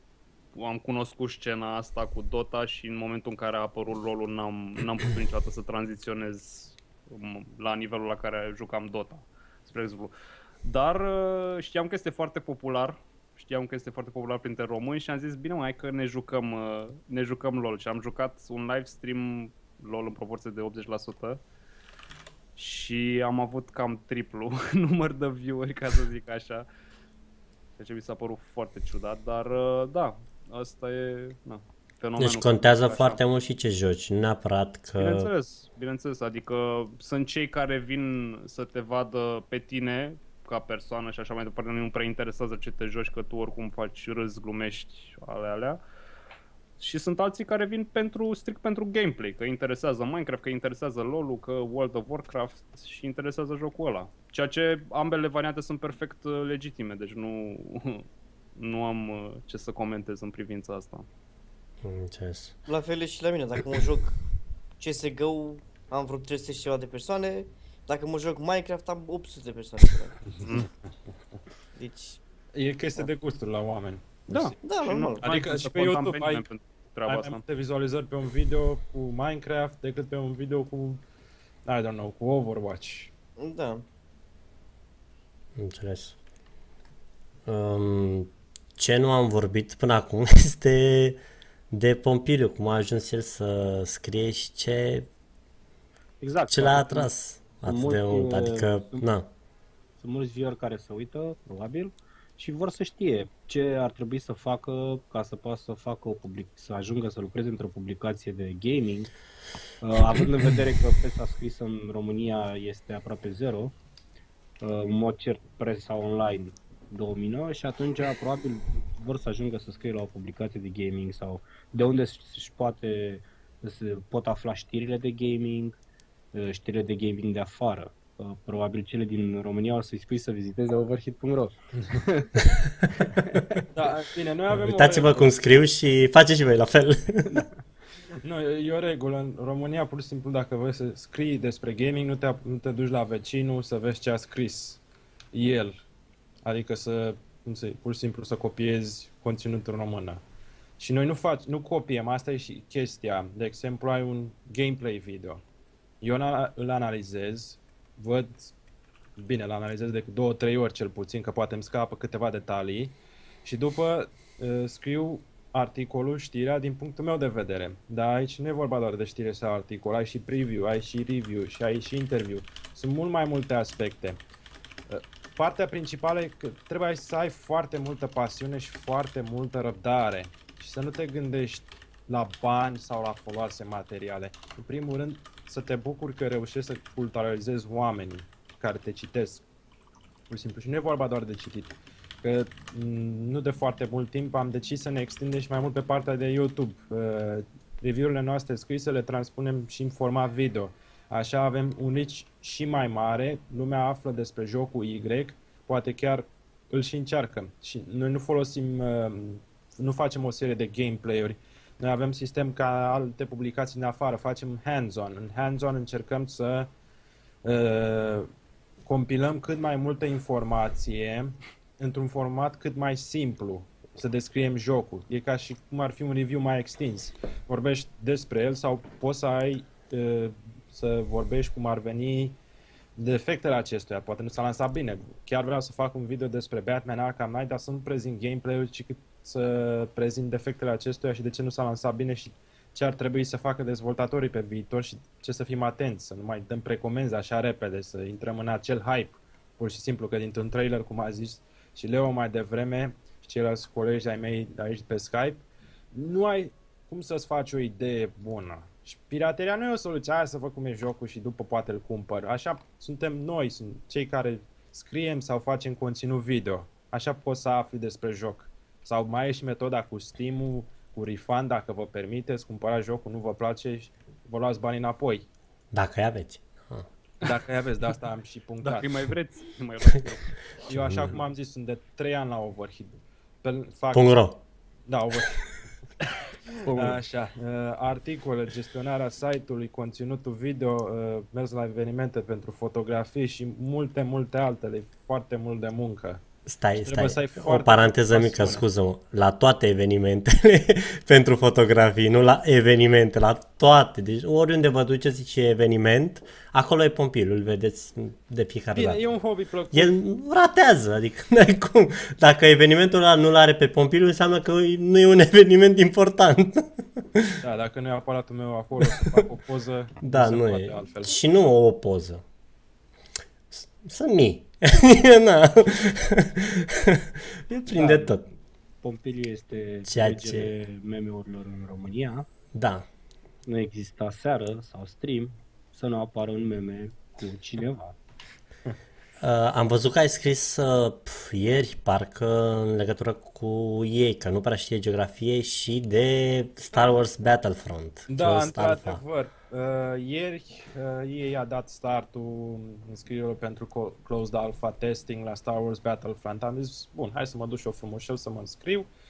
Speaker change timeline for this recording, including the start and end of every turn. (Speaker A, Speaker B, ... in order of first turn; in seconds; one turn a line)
Speaker A: 0.6-10.1
Speaker A: 10.6-21.4
Speaker A: 22.6-26.7
Speaker A: 27.8-33.2
Speaker B: 32.2-35.3
Speaker A: 35.0-45.8
Speaker A: 46.8-61.1
Speaker B: 61.8-62.6
Speaker C: 62.7-64.2
Speaker C: 64.8-70.2
Speaker D: 70.4-70.7
Speaker A: 70.4-70.7
Speaker C: 71.8-72.2
Speaker D: 72.5-74.6
Speaker A: 74.3-77.4
Speaker C: 74.6-75.3
Speaker D: 75.2-76.5
Speaker D: 77.1-81.0
Speaker D: 81.7-83.1
Speaker C: 83.4-83.8
Speaker B: 85.6-86.2
Speaker B: 87.5-95.1
Speaker E: 96.2-97.1
Speaker B: 96.5-99.3
Speaker E: 97.7-99.0
Speaker E: 100.0-109.1
Speaker E: 109.8-113.7
Speaker E: 114.6-125.8
Speaker E: 126.3-132.5
Speaker E: 133.1-133.6
Speaker D: 133.7-135.3
Speaker B: 134.5-137.4
Speaker D: 138.2-144.8
Speaker D: 145.3-145.8
Speaker D: 146.4-150.2
Speaker D: 150.8-155.4
Speaker D: 156.0-158.6
Speaker D: 159.2-174.2
Speaker D: 174.9-189.4
Speaker D: 190.3-216.7
Speaker D: 217.4-218.3
Speaker D: 218.8-232.4
Speaker D: 233.0-275.3
Speaker B: 275.7-276.9
Speaker D: 277.2-279.0
Speaker A: 278.6-280.4
Speaker D: 280.7-284.2
Speaker B: 280.7-281.1
Speaker B: 283.9-284.4
Speaker D: 284.9-285.6
Speaker E: 286.6-287.0
Speaker D: 286.7-296.2
Speaker B: 296.5-309.0
Speaker D: 296.8-298.6
Speaker D: 308.7-309.9
Speaker B: 309.7-317.4
Speaker D: 317.4-321.1
Speaker B: 318.9-319.2
Speaker B: 320.0-322.2
Speaker B: 323.5-328.2
Speaker E: 327.7-332.3
Speaker B: 329.9-330.5
Speaker B: 332.5-332.9
Speaker E: 333.5-338.0
Speaker B: 339.2-349.0
Speaker D: 348.1-358.9